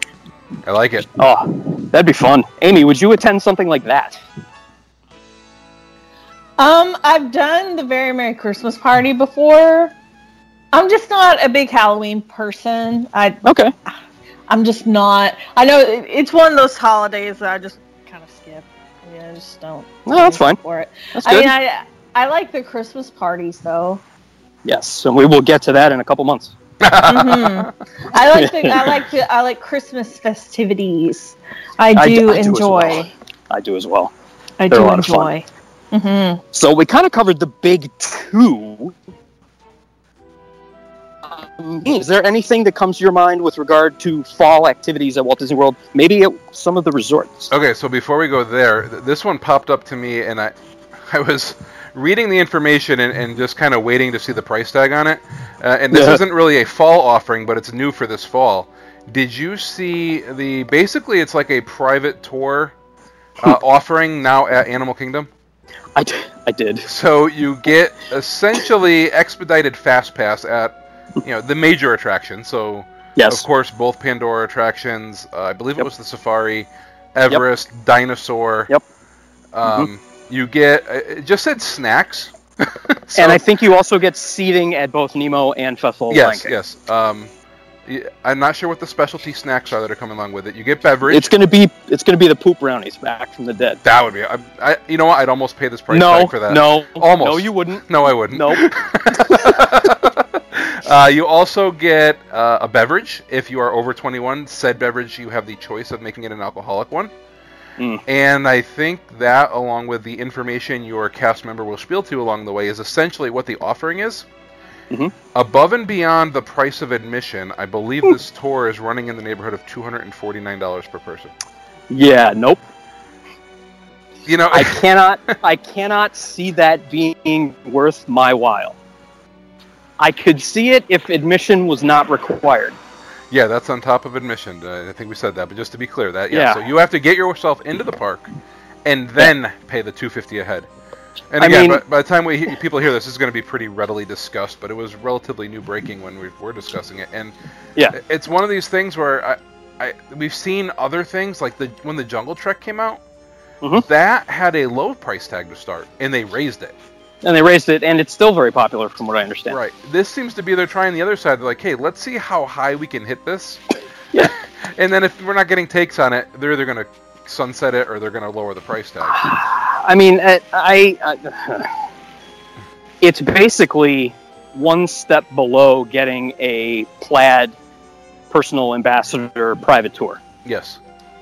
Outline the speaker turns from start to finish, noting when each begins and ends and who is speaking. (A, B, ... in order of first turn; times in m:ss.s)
0:00.6-0:01.1 A
0:01.2-0:04.2 B
0:06.6-0:09.9 C
0:10.7-0:13.4 C
0:13.4-0:13.7 B
0:14.5-0:24.0 C
0:20.1-0:20.6 B
0:21.2-0:21.5 B
0:24.6-0:26.6 B
0:26.8-0:27.7 A
0:27.1-0:33.1 C
0:28.3-0:29.0 B
0:32.0-0:34.1 B
0:34.6-0:36.4 C
0:34.7-0:35.3 B
0:36.5-0:38.9 B
0:41.3-0:47.5 B
0:47.5-1:02.7 A
0:55.9-0:56.2 B
1:03.4-1:05.3 A
1:06.0-1:06.9 B
1:06.9-1:18.7 A
1:13.2-1:13.5 B
1:19.5-1:23.4 A
1:19.6-1:19.9 B
1:23.2-1:26.5 B
1:26.1-1:27.3 A
1:27.9-1:31.3 A
1:31.1-1:33.8 B
1:33.8-1:47.1 A
1:35.9-1:38.7 B
1:47.8-1:48.0 B
1:48.1-1:54.3 A
1:55.4-2:01.3 A
2:01.9-2:02.6 B
2:04.3-2:04.8 A
2:04.5-2:08.8 B
2:10.0-2:12.8 B
2:13.3-2:18.3 A
2:16.3-2:16.7 B
2:18.8-2:20.7 A
2:21.3-2:27.3 A
2:21.4-2:21.8 B
2:27.9-2:33.0 A
2:33.8-2:36.7 A
2:37.2-2:39.6 B
2:39.5-2:43.6 A
2:44.2-2:49.3 A
2:49.1-2:51.7 B
2:53.0-2:57.6 B
2:58.3-3:00.2 B
3:00.4-3:00.8 A